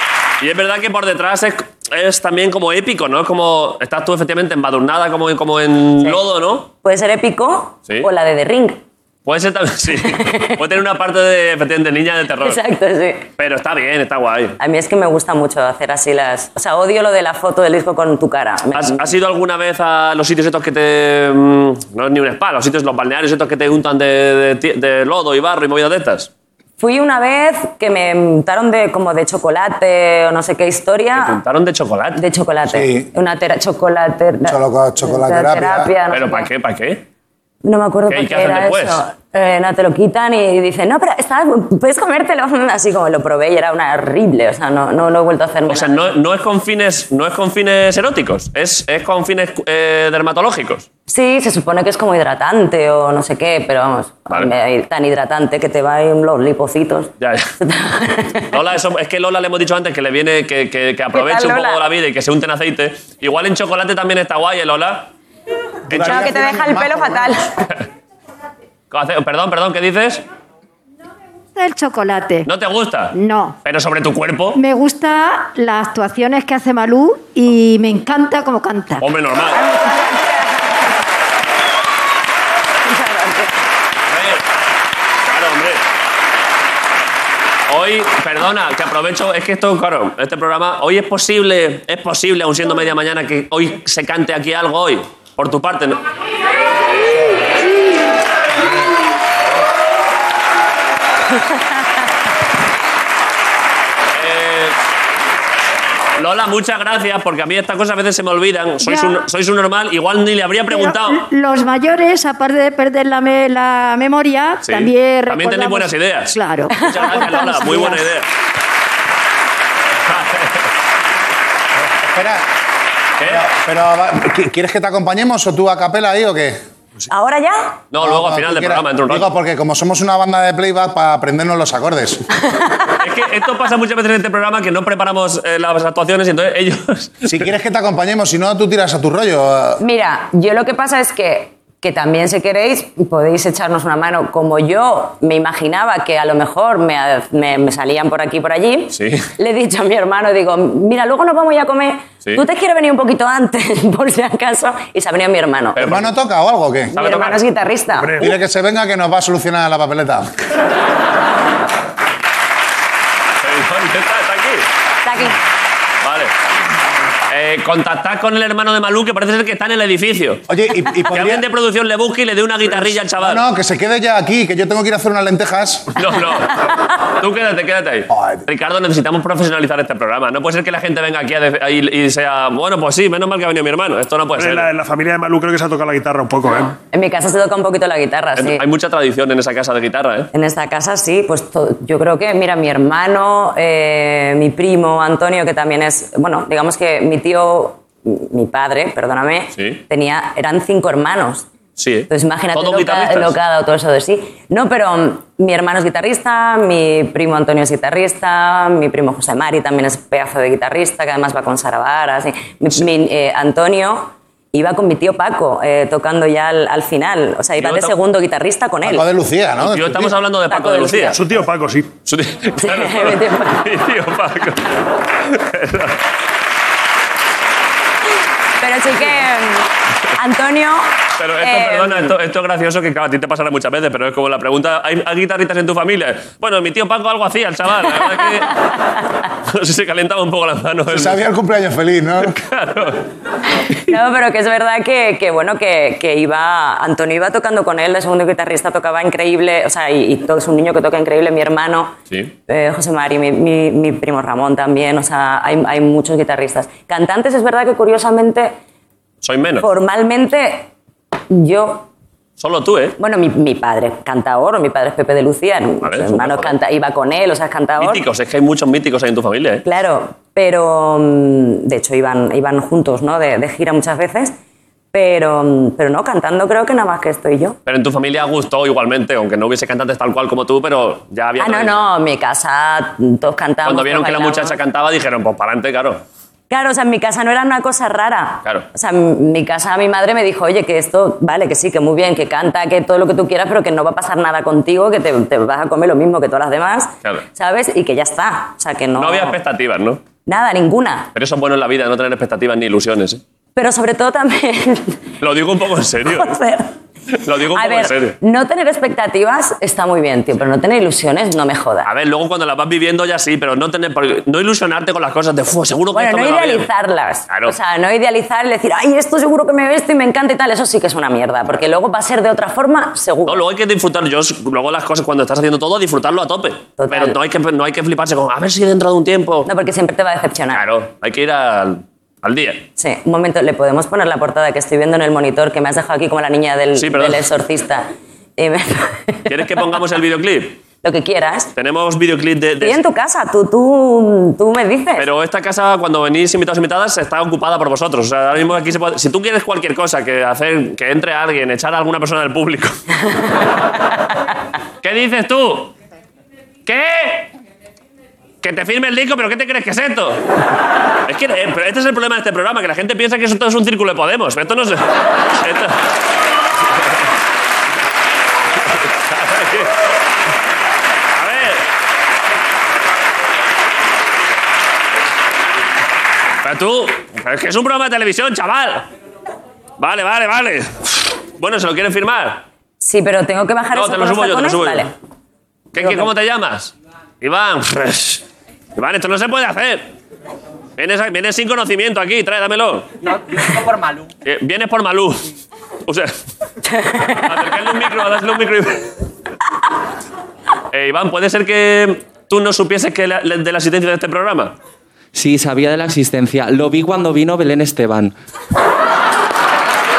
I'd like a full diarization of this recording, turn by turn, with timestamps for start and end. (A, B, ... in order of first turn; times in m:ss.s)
0:00.4-0:06.7 A
0:06.8-0:08.8 B
0:09.2-0:12.6 A
0:09.9-0:10.6 B
0:12.4-0:13.3 B
0:13.4-0:14.6 A
0:14.6-0:19.1 B
0:18.7-0:26.3 A
0:26.8-0:31.4 B
0:31.1-0:32.2 A
0:32.1-0:36.5 B
0:32.7-0:33.1 C
0:34.5-0:35.9 C
0:36.1-0:37.0 A
0:37.6-0:46.1 B
0:38.1-0:39.0 A
0:45.7-0:50.9 A
0:51.1-0:58.6 B
0:57.2-0:57.5 A
0:58.5-1:05.1 A
1:01.1-1:01.8 B
1:05.9-1:07.4 C
1:05.9-1:06.3 A
1:06.0-1:07.5 B
1:08.9-1:10.2 A
1:11.5-1:12.5 D
1:12.4-1:14.6 A
1:13.1-1:13.6 D
1:14.5-1:19.0 D
1:19.0-1:19.6 A
1:19.4-1:20.8 B
1:22.8-1:23.6 B
1:24.1-1:24.4 A
1:25.2-1:25.8 A
1:27.7-1:36.0 A
1:44.1-1:44.8 A
1:46.2-1:51.2 A
1:48.8-1:49.2 D
1:50.7-1:58.0 D
1:54.6-1:58.3 A
1:56.7-1:57.2 B
2:00.1-2:00.7 A
2:01.9-2:02.4 C
2:03.2-2:03.4 A
2:03.2-2:06.6 C
2:07.1-2:07.8 B
2:07.9-2:09.3 A
2:08.0-2:12.2 C
2:12.5-2:12.9 B
2:13.0-2:17.4 A
2:17.2-2:19.8 C
2:19.8-2:35.8 B
2:28.9-2:29.3 A
2:35.8-2:36.1 A
2:35.8-2:36.9 C
2:36.9-2:37.4 A
2:36.9-2:38.1 B
2:38.0-2:38.3 E
2:38.2-2:40.3 C
2:43.4-2:44.6 A
2:45.0-2:45.4 B
2:46.0-2:46.3 A
2:47.3-2:50.4 A
2:50.5-2:51.4 C
2:51.1-2:53.4 A
2:52.9-2:55.9 C
2:56.0-3:04.7 A
2:58.1-2:58.4 C
3:04.4-3:06.8 E
3:06.8-3:08.6 B
3:08.4-3:10.3 A
3:10.3-3:21.5 B
3:19.6-3:19.8 A
3:21.8-3:23.3 A
3:22.1-3:39.0 B
3:37.6-3:37.9 A
3:38.8-3:40.1 C
3:39.6-3:41.2 A
3:40.5-3:41.2 B
3:41.1-3:41.9 E
3:42.0-3:46.0 A
3:42.6-3:43.8 B
3:48.6-3:52.2 B
3:51.2-3:58.6 A
3:57.8-3:58.7 B
3:59.5-4:01.2 A
4:00.9-4:02.4 C
4:02.3-4:03.0 A
4:03.7-4:11.9 B
4:12.5-4:18.6 B
4:19.2-4:19.7 A
4:19.6-4:20.7 B
4:21.3-4:21.9 B
4:22.4-4:23.0 A
4:23.0-4:28.0 B
4:25.8-4:26.5 A
4:27.8-4:29.6 A
4:29.6-4:34.3 B
4:34.9-4:37.6 B
4:37.6-4:41.8 A
4:41.4-4:44.6 B
4:43.6-4:46.0 A
4:46.5-4:59.4 B
4:59.0-5:00.0 A
5:00.2-5:01.1 B
5:01.1-5:03.2 A
5:03.6-5:05.0 B
5:05.2-5:06.3 A
5:06.0-5:06.7 B
5:07.1-5:08.2 A
5:07.4-5:11.9 B
5:11.8-5:16.7 A
5:15.9-5:23.4 B
5:17.3-5:17.6 A
5:23.2-5:29.5 A
5:26.8-5:27.2 B
5:29.4-5:30.6 B
5:30.5-5:32.6 A
5:32.8-5:37.8 B
5:36.8-5:37.2 A
5:38.4-5:39.6 B
5:39.3-5:40.6 A
5:40.8-5:41.5 B
5:41.6-5:42.8 A
5:42.6-5:45.1 B
5:45.0-5:52.8 A
5:54.8-5:55.7 A
5:56.6-5:57.3 A
5:58.4-6:00.2 A
6:01.1-6:05.8 A
6:08.6-6:09.7 A
6:11.1-6:11.6 A
6:16.4-6:18.9 A
6:19.8-6:22.4 A
6:22.8-6:24.9 B
6:23.7-6:24.8 A
6:25.7-6:28.2 A
6:25.7-6:26.1 B
6:28.7-6:29.9 A
6:30.8-6:32.9 A
6:33.6-6:33.8 F
6:34.2-6:35.3 A
6:35.8-6:36.1 A
6:36.7-6:37.4 B
6:37.0-6:38.9 A
6:40.7-6:44.5 A
6:45.1-6:48.1 F